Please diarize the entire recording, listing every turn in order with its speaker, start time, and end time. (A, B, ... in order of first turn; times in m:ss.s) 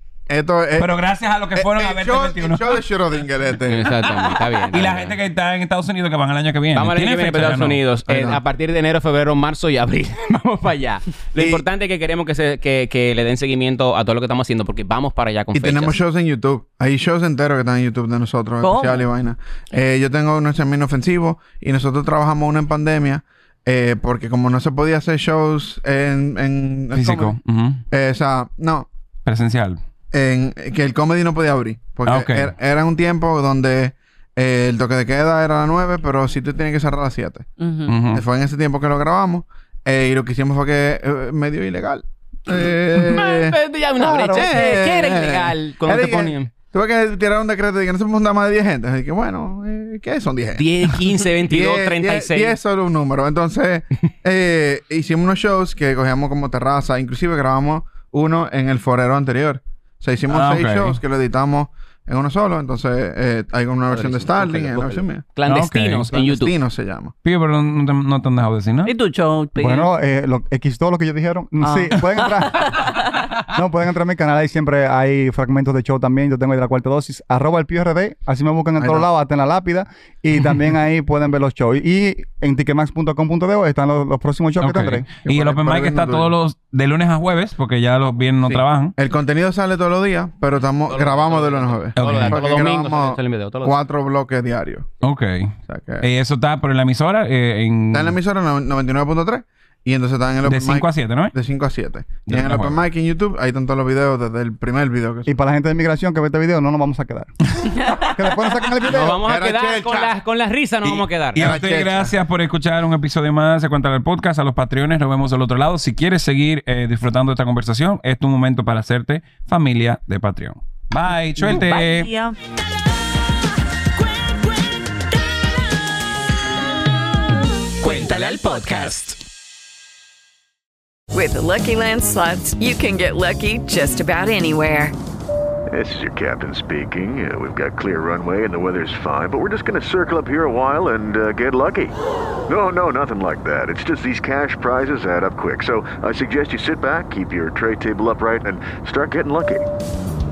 0:00.3-0:00.9 A
0:00.8-0:02.8 B
0:01.5-0:04.0 A
0:03.7-0:05.2 C
0:04.7-0:07.8 B
0:06.7-0:16.0 C
0:08.1-0:08.4 A
0:11.4-0:11.6 A
0:15.5-0:27.3 A
0:18.6-0:19.0 D
0:26.9-0:27.8 B
0:27.9-0:28.9 A
0:29.2-0:29.8 B
0:30.1-0:37.5 A
0:32.0-0:32.5 B
0:37.6-0:37.9 D
0:37.9-0:38.2 B
0:38.1-0:43.6 A
0:43.0-0:46.5 C
0:44.0-0:44.8 E
0:44.2-0:50.6 A
0:50.6-0:52.6 C
0:51.4-1:05.2 A
1:00.3-1:01.0 B
1:03.9-1:06.5 C
1:05.4-1:06.1 B
1:06.1-1:07.1 A
1:07.2-1:08.9 B
1:08.8-1:09.9 D
1:09.6-1:12.9 E
1:11.6-1:13.1 D
1:13.5-1:25.0 E
1:18.8-1:19.0 A
1:24.6-1:28.9 B
1:25.2-1:26.3 A
1:28.4-1:34.9 A
1:30.9-1:33.7 C
1:32.0-1:32.4 B
1:35.0-1:38.2 B
1:35.7-1:36.0 A
1:37.9-1:45.3 A
1:40.4-1:41.3 B
1:42.3-1:42.8 B
1:45.2-1:47.3 E
1:47.8-1:48.1 D
1:47.9-1:49.2 E
1:48.8-1:50.1 A
1:48.9-1:51.5 C
1:50.8-1:52.1 A
1:51.3-2:02.1 B
2:01.4-2:02.3 D
2:07.8-2:09.2 D
2:07.8-2:09.0 B
2:11.1-2:14.9 F
2:15.7-2:21.9 G
2:22.5-2:29.6 G